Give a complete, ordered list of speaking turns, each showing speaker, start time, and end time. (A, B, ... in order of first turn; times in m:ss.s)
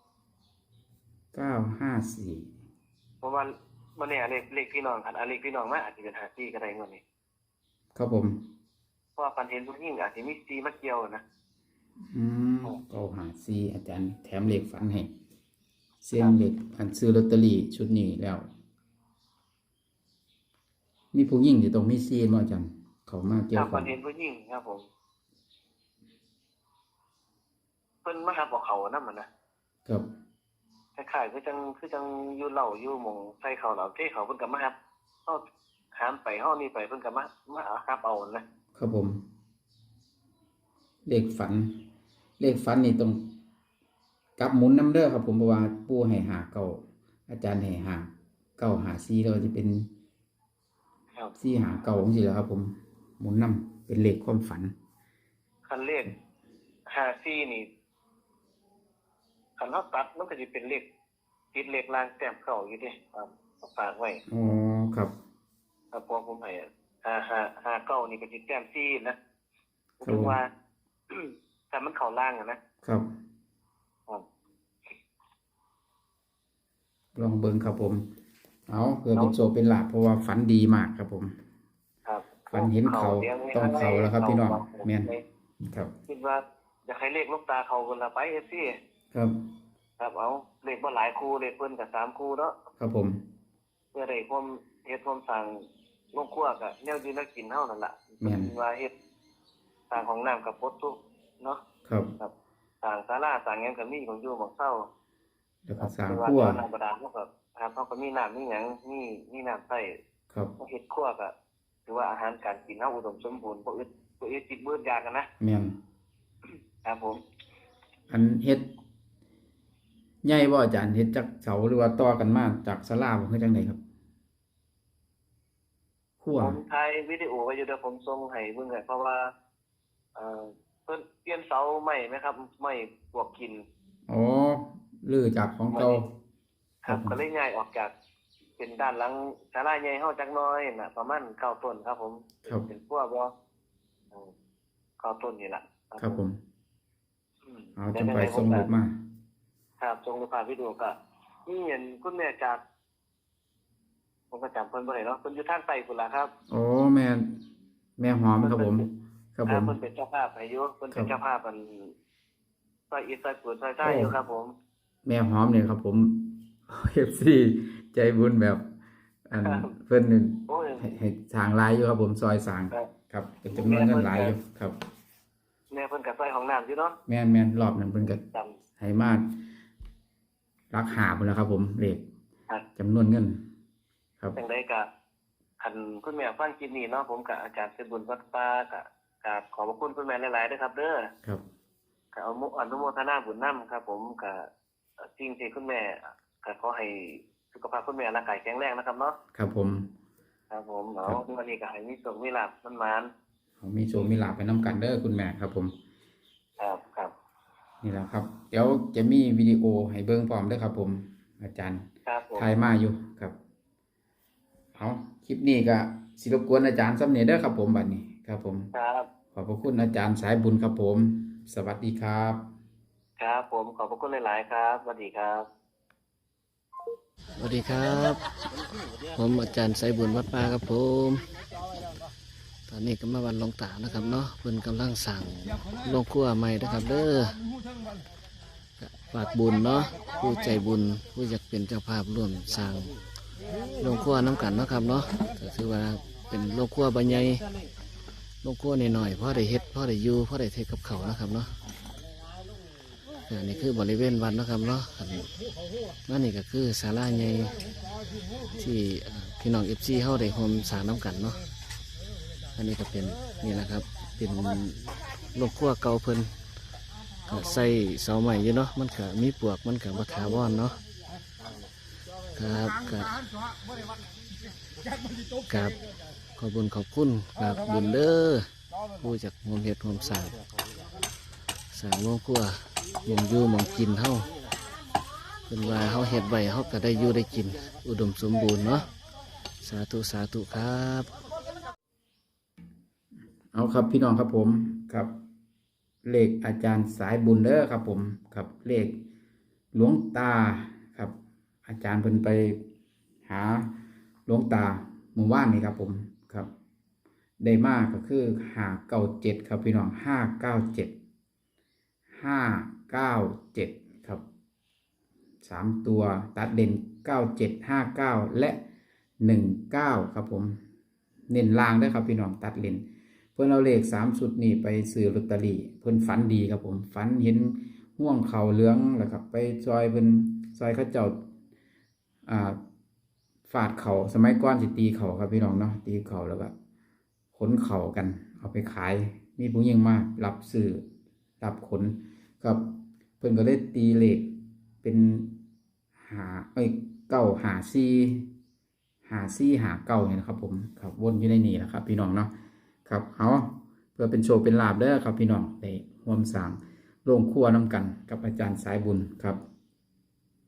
0:01.3-0:02.5 A
0:03.2-0:07.0 B
0:08.0-0:08.4 A
0:09.2-0:11.2 B
0:12.1-0:15.1 A
0:16.0-0:18.5 A
0:21.1-0:23.9 A
0:23.5-0:24.9 B
0:28.0-0:29.3 B
0:31.0-0:34.8 B
0:36.0-0:38.4 B
0:38.8-0:39.2 A
0:41.1-0:41.8 A
0:42.4-0:43.3 A
0:44.4-0:49.9 A
0:51.4-0:54.7 A
0:55.7-0:56.1 B
0:56.9-0:57.7 B
0:59.6-1:00.9 B
1:01.5-1:04.2 B
1:04.3-1:05.1 A
1:05.9-1:09.2 B
1:10.0-1:10.5 B
1:10.0-1:10.4 A
1:11.1-1:12.6 B
1:17.2-1:18.0 A
1:18.7-1:21.3 A
1:22.1-1:25.2 B
1:22.5-1:25.1 A
1:25.6-1:25.9 A
1:26.1-1:28.7 B
1:30.0-1:32.6 B
1:32.8-1:33.2 A
1:33.9-1:38.9 B
1:38.2-1:38.5 A
1:39.9-1:41.6 B
1:41.9-1:42.1 A
1:42.2-1:44.9 B
1:45.7-1:46.6 A
1:45.8-1:49.9 B
1:50.6-1:51.3 B
1:51.9-1:55.3 B
1:55.4-1:55.8 A
1:56.8-1:57.2 B
1:58.1-1:58.7 A
2:00.2-2:03.8 A
2:06.2-2:06.6 A
2:06.4-2:09.2 B
2:10.2-2:13.6 B
2:14.1-2:16.1 A
2:15.7-2:16.0 B
2:16.8-2:17.9 B
2:16.9-2:17.2 A
2:18.6-2:23.3 B
2:25.0-2:26.2 B
2:26.0-2:26.4 A
2:27.5-2:28.7 B
2:27.8-2:29.0 A
2:29.8-2:30.9 B
2:31.5-2:32.6 B
2:34.3-2:36.3 B
2:36.5-2:37.4 A
2:38.0-2:39.7 A
2:38.4-2:38.8 B
2:39.5-2:41.9 B
2:42.9-2:44.5 B
2:43.8-2:44.1 A
2:45.0-2:48.7 A
2:49.3-2:54.8 A
2:49.4-2:49.6 B
2:50.5-2:50.9 B
2:53.5-2:54.4 B
2:55.7-2:57.0 B
2:57.1-2:58.2 A
2:58.1-2:58.6 B
2:58.8-2:59.4 A
3:00.7-3:02.0 A
3:02.8-3:03.4 A
3:04.4-3:04.9 B
3:05.6-3:11.0 B
3:12.1-3:14.5 B
3:15.2-3:19.2 B
3:19.4-3:19.9 A
3:20.5-3:23.1 B
3:23.6-3:25.7 A
3:26.6-3:27.1 B
3:27.8-3:31.8 A
3:32.1-3:32.5 B
3:32.4-3:33.4 A
3:34.8-3:38.7 A
3:38.7-3:39.1 B
3:39.3-3:42.4 A
3:43.2-3:45.5 B
3:47.4-3:48.2 C
3:49.2-3:51.2 C
3:52.7-3:57.4 C
3:58.8-4:02.9 C
4:03.8-4:07.4 C
4:08.4-4:11.5 C
4:13.3-4:15.3 C
4:16.1-4:17.6 C
4:18.5-4:21.4 C
4:22.6-4:24.8 C
4:25.4-4:26.3 C
4:27.3-4:30.8 C
4:32.4-4:33.2 C
4:35.5-4:35.8 C
4:36.4-4:40.4 C
4:41.7-4:44.3 C
4:45.5-4:48.9 C
4:49.6-4:51.1 C
4:53.5-4:55.1 A
4:56.0-4:59.0 A
4:59.7-5:01.2 A
5:01.7-5:02.6 A
5:03.3-5:03.7 A
5:04.3-5:06.5 A
5:07.4-5:11.0 A
5:12.2-5:14.2 A
5:15.4-5:18.6 A
5:19.2-5:20.6 A
5:21.3-5:31.2 A
5:32.3-5:32.6 A
5:33.5-5:36.5 A
5:37.4-5:40.8 A
5:41.4-5:45.4 A
5:46.0-5:48.3 A
5:49.1-5:52.3 A
5:52.9-5:59.4 A